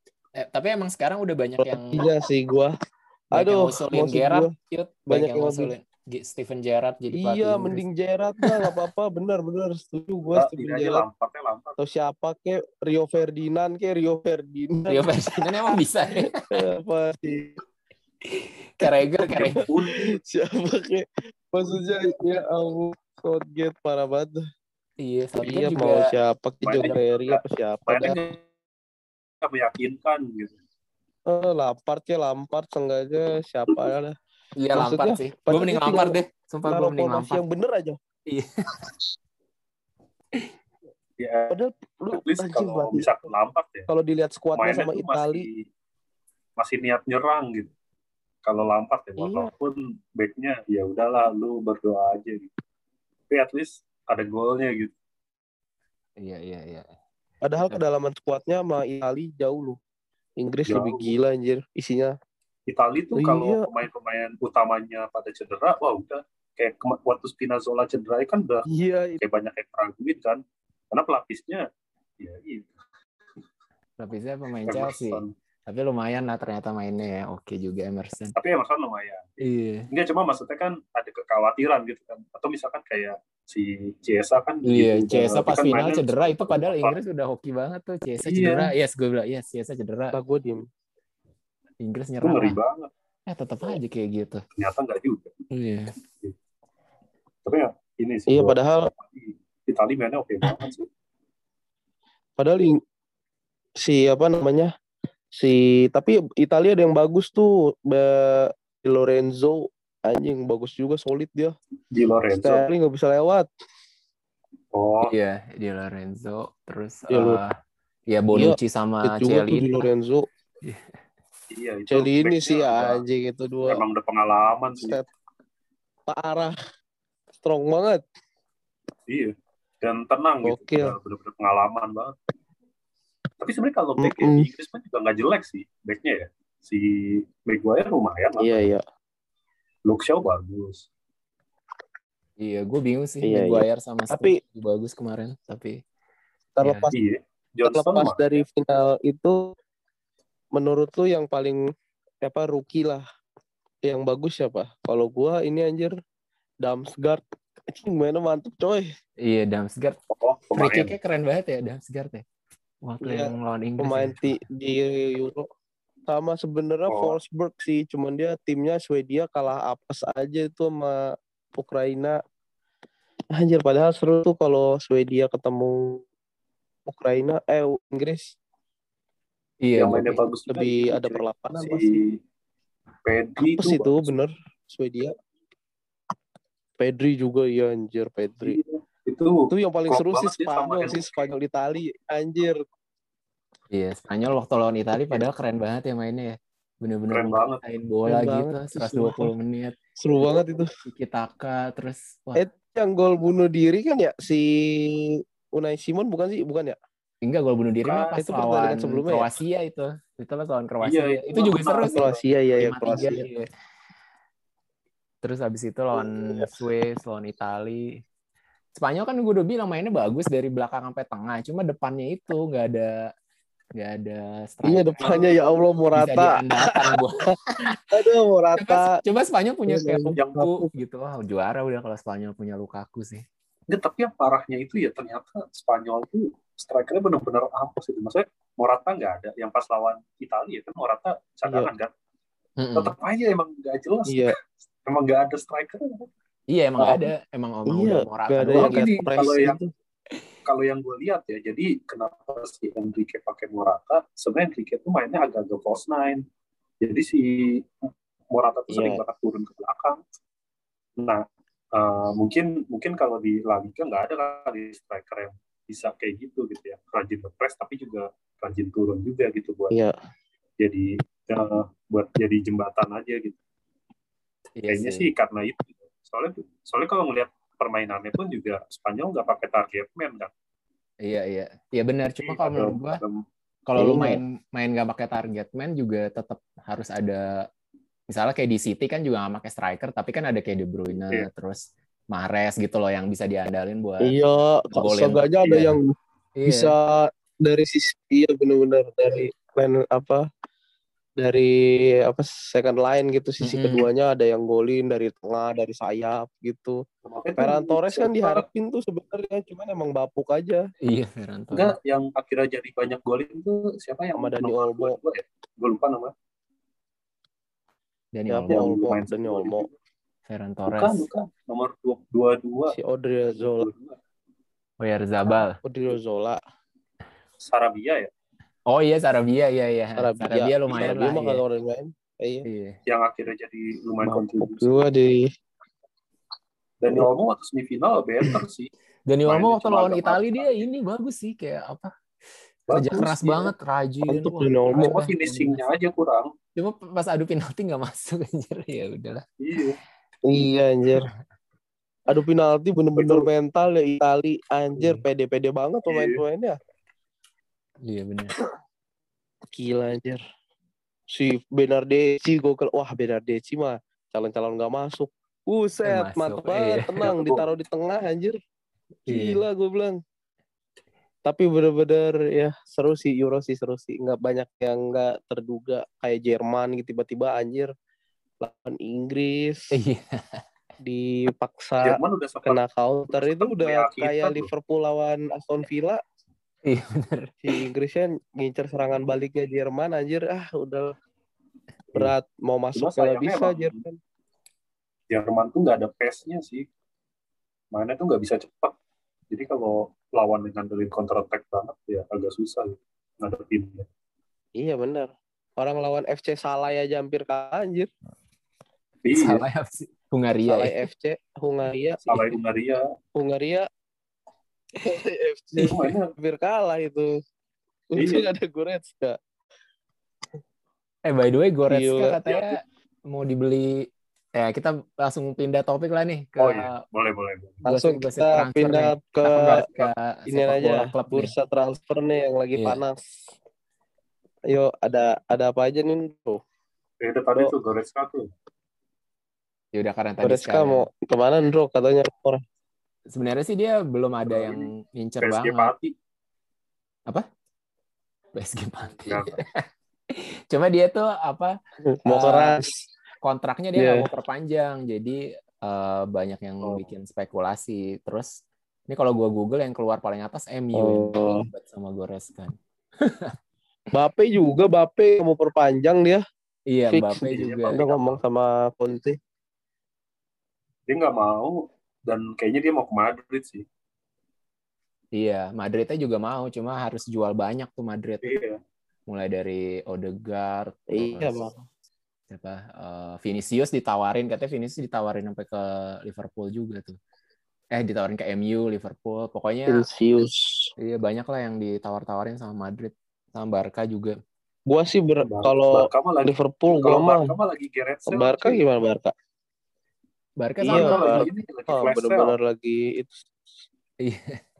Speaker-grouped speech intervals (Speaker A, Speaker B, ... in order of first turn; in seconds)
Speaker A: 0.3-2.1, 3.3-7.8, 8.4-8.9, 14.9-16.6, 18.8-19.6, 25.0-26.1, 34.6-37.4, 38.2-38.9, 56.2-56.9, 74.0-78.3, 79.4-79.9, 84.6-90.2, 91.8-92.6, 93.3-94.4, 95.5-95.9, 115.0-117.5, 118.1-119.9, 120.6-120.9, 142.4-145.8, 146.6-146.9, 159.2-160.0, 160.5-162.2, 162.8-164.4, 179.6-180.2, 193.7-199.7, 200.8-202.4, 207.2-212.1, 212.6-213.5, 215.2-218.0, 218.8-223.1, 223.8-225.2, 225.9-228.0, 228.6-233.2, 242.6-242.9, 246.5-248.9, 274.6-275.1, 281.0-283.0, 283.7-287.3, 288.1-294.2, 294.7-295.8, 296.4-296.8, 303.4-303.9, 310.8-311.8, 318.1-318.8, 320.2-321.1, 324.8-325.6, 328.7-331.4, 332.4-332.8, 339.1-341.9, 342.7-345.6, 346.6-349.2, 354.8-355.0, 357.8-358.3, 365.8-367.1, 369.1-369.4, 379.7-380.4, 386.6-387.3, 409.1-410.7, 421.0-426.8, 427.6-431.3, 432.6-432.8, 439.7-440.9, 443.1-445.7, 448.3-451.6, 452.1-452.6, 453.2-458.3, 458.9-463.4, 466.7-467.8, 475.1-478.4, 479.1-481.4, 482.3-487.0, 487.7-489.9, 490.8-494.2, 500.4-501.3, 504.0-504.4
Speaker B: 1.6-2.7, 3.3-4.5, 5.1-5.7, 7.1-11.0, 11.8-17.6, 19.2-24.4, 25.4-28.2, 31.3-34.1, 34.7-38.0, 41.5-43.1, 43.9-45.5, 49.2-49.5, 57.4-59.8, 60.4-62.1, 63.1-63.7, 68.7-69.2, 90.1-90.6, 98.3-98.9, 102.4-102.8, 103.8-104.7, 105.3-111.5, 112.4-113.5, 117.1-117.4, 118.3-120.2, 121.9-123.8, 126.1-126.5, 127.4-128.0, 130.4-130.9, 134.0-134.5, 138.4-138.8, 143.2-144.4, 146.6-146.9, 147.6-149.4, 150.5-151.6, 152.2-153.0, 153.8-155.9, 156.6-158.9, 163.0-165.5, 166.1-171.0, 171.6-172.2, 173.3-176.0, 176.9-178.3, 180.5-182.0, 183.4-185.1, 186.8-188.6, 189.5-192.6, 198.1-199.3, 200.0-200.7, 202.3-206.8, 208.2-209.3, 211.7-213.2, 215.9-216.5, 224.6-227.3, 227.9-229.0, 229.7-230.7, 244.1-244.3, 247.7-249.6, 258.7-259.0, 283.8-284.2, 294.0-295.9, 296.4-300.2, 301.2-306.8, 307.4-310.6, 314.2-315.0, 318.3-319.7, 322.7-323.7, 325.6-326.4, 330.0-332.5, 334.0-335.3, 344.1-345.0, 350.3-351.1, 352.1-356.6, 359.5-360.2, 361.1-368.4, 369.1-370.0, 371.2-377.7, 378.4-379.7, 380.8-386.0, 387.4-390.9, 391.9-394.0, 404.6-407.9, 410.5-412.1, 413.1-413.7, 414.8-417.1, 417.9-419.2, 421.7-422.4, 427.6-429.7, 430.3-433.3, 434.5-436.4, 440.2-442.4, 451.8-452.8, 453.8-454.1, 460.7-461.5, 463.9-466.2, 466.9-469.2, 480.9-481.6, 489.7-490.7, 494.7-497.3, 498.1-499.1, 500.6-503.3
Speaker C: 10.3-11.8, 19.3-20.2, 26.6-28.4, 29.4-30.6, 41.2-41.6, 42.1-43.9, 44.5-45.6, 46.6-47.7, 48.4-52.5, 53.3-54.9, 60.7-61.1, 62.7-68.6, 69.2-70.4, 70.9-71.7, 72.2-72.7, 74.7-75.3, 78.3-87.0, 88.2-88.7, 92.2-92.9, 94.5-95.3, 97.4-100.8, 111.9-112.7, 114.7-115.1, 121.5-123.0, 123.7-125.0, 129.1-132.1, 133.4-138.7, 139.9-140.8, 146.9-148.4, 160.1-160.9, 166.9-167.2, 179.8-182.2, 183.1-184.2, 188.4-191.3, 197.1-197.6, 207.8-208.2, 210.8-212.2, 225.0-225.4, 230.2-230.5, 233.7-241.9, 242.8-244.3, 244.8-246.1, 248.6-249.6, 250.4-256.2, 256.8-260.0, 261.0-261.2, 261.7-269.7, 270.6-273.4, 274.7-280.3, 282.2-283.2, 307.0-308.4, 311.5-316.1, 318.5-319.7, 320.7-322.8, 323.4-324.0, 327.4-328.1, 332.9-334.7, 336.8-338.7, 339.2-340.6, 342.7-343.5, 344.7-346.3, 349.4-349.8, 353.0-353.3, 355.9-356.2, 367.0-367.5, 381.8-382.6, 383.1-384.5, 392.7-393.8, 395.1-396.6, 397.7-398.7, 399.3-403.9, 409.0-409.4, 412.1-412.8, 415.6-416.1, 417.9-418.3, 426.4-427.6, 437.0-438.3, 444.3-444.7, 445.2-445.9, 449.1-449.4, 456.6-456.9, 467.3-468.2, 470.9-473.6, 478.2-478.6, 495.2-498.6, 500.6-502.3